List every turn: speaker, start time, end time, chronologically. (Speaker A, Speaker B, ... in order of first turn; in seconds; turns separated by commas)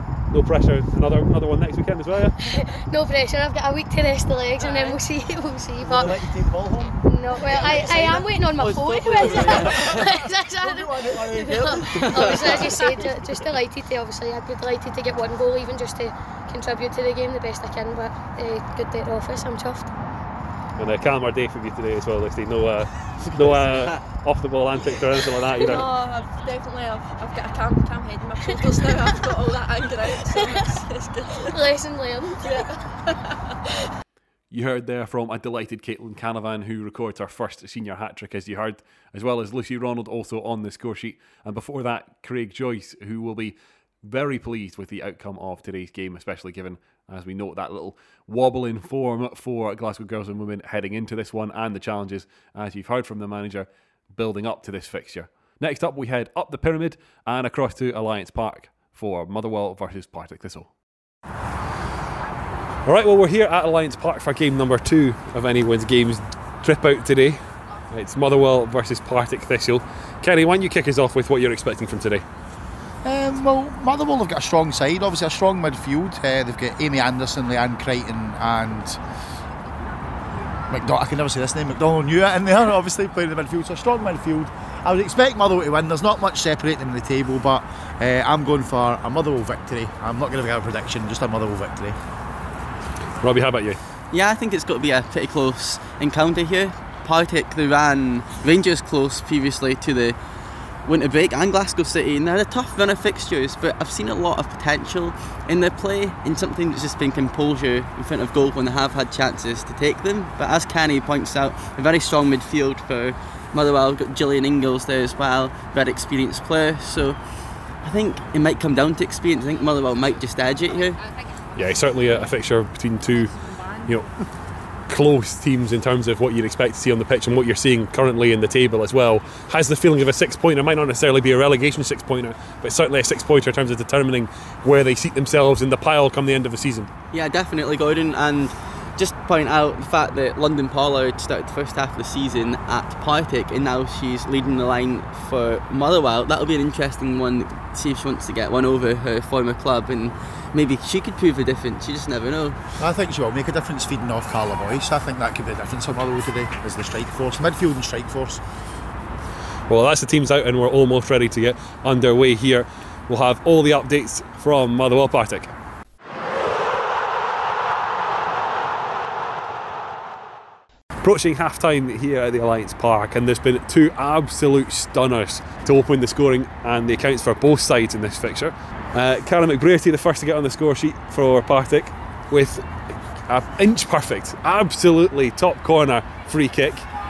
Speaker A: 0.3-2.4, Speaker B: 2.5-6.2, Speaker C: 4.6-5.0, Speaker D: 5.8-12.8, Speaker B: 7.0-19.9, Speaker E: 9.4-10.0, Speaker E: 12.1-12.6, Speaker C: 12.2-13.5, Speaker A: 20.8-25.9, Speaker E: 23.4-24.0, Speaker C: 25.6-31.7, Speaker B: 30.3-30.6, Speaker B: 31.5-32.5, Speaker C: 32.4-33.4, Speaker A: 34.5-60.7, Speaker A: 62.9-67.4, Speaker A: 67.9-72.2, Speaker D: 73.0-79.0, Speaker D: 80.7-92.0, Speaker A: 93.2-93.8, Speaker E: 94.1-100.2, Speaker E: 100.8-117.2, Speaker E: 117.8-121.0, Speaker A: 121.5-124.1, Speaker A: 124.9-136.9, Speaker E: 137.1-152.6, Speaker D: 152.8-158.4, Speaker A: 159.7-165.5, Speaker A: 171.0-182.7, Speaker A: 183.3-186.9